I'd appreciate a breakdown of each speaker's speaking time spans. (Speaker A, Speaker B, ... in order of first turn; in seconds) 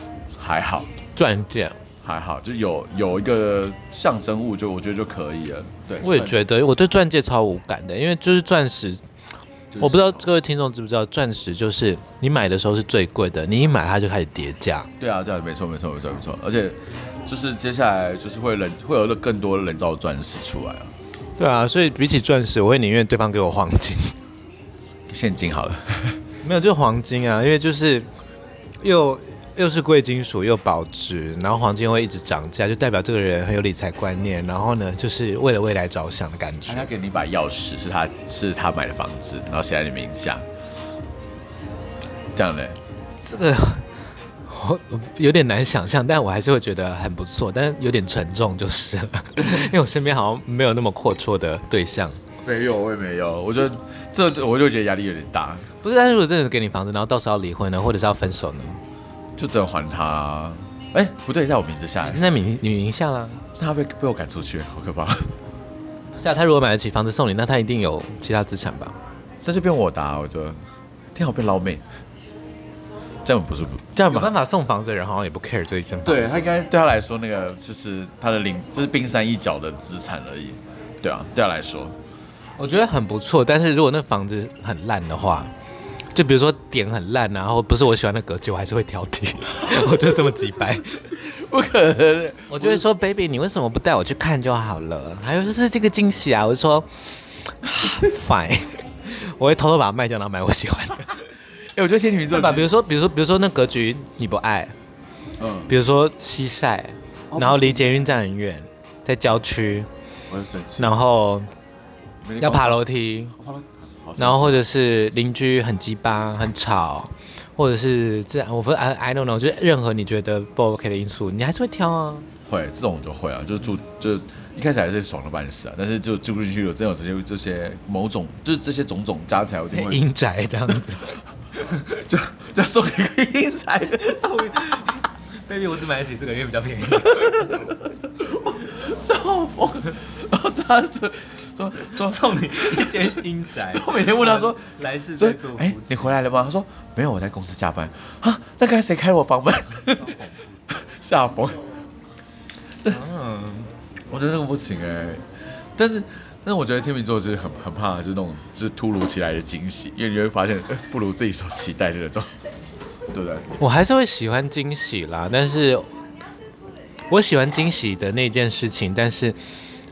Speaker A: 0.4-0.9, 2.0-6.4, 9.7-10.3, 15.0-20.9, 25.1-26.2, 36.7-40.5, 42.3-42.8, 49.4-49.7, 52.4-55.7, 59.4-62.2, 63.6-65.4, 69.5-70.6, 71.1-71.9, 73.2-74.3, 76.0-82.0, 91.1-92.8, 101.4-102.7, 105.4-105.7, 107.3-108.2, 110.3-111.0, 112.2-112.8, 113.4-114.6, 122.5-130.0, 131.7-134.2, 137.0-151.6, 154.1-162.4, 163.1-163.5
Speaker B: 1.1-1.8, 6.0-9.0, 9.8-14.9, 21.4-24.1, 26.4-28.1, 28.8-36.9, 43.2-43.9, 44.5-52.2, 55.8-58.8, 62.0-63.5, 66.2-69.0, 74.0-76.5, 82.6-85.5, 86.1-91.1, 92.5-101.2, 102.3-104.8, 105.7-109.9, 110.8-111.5, 112.4-113.3, 114.2-122.3, 129.7-131.1, 134.0-137.7, 141.8-146.2, 152.9-153.7, 163.6-165.9, 167.1-169.4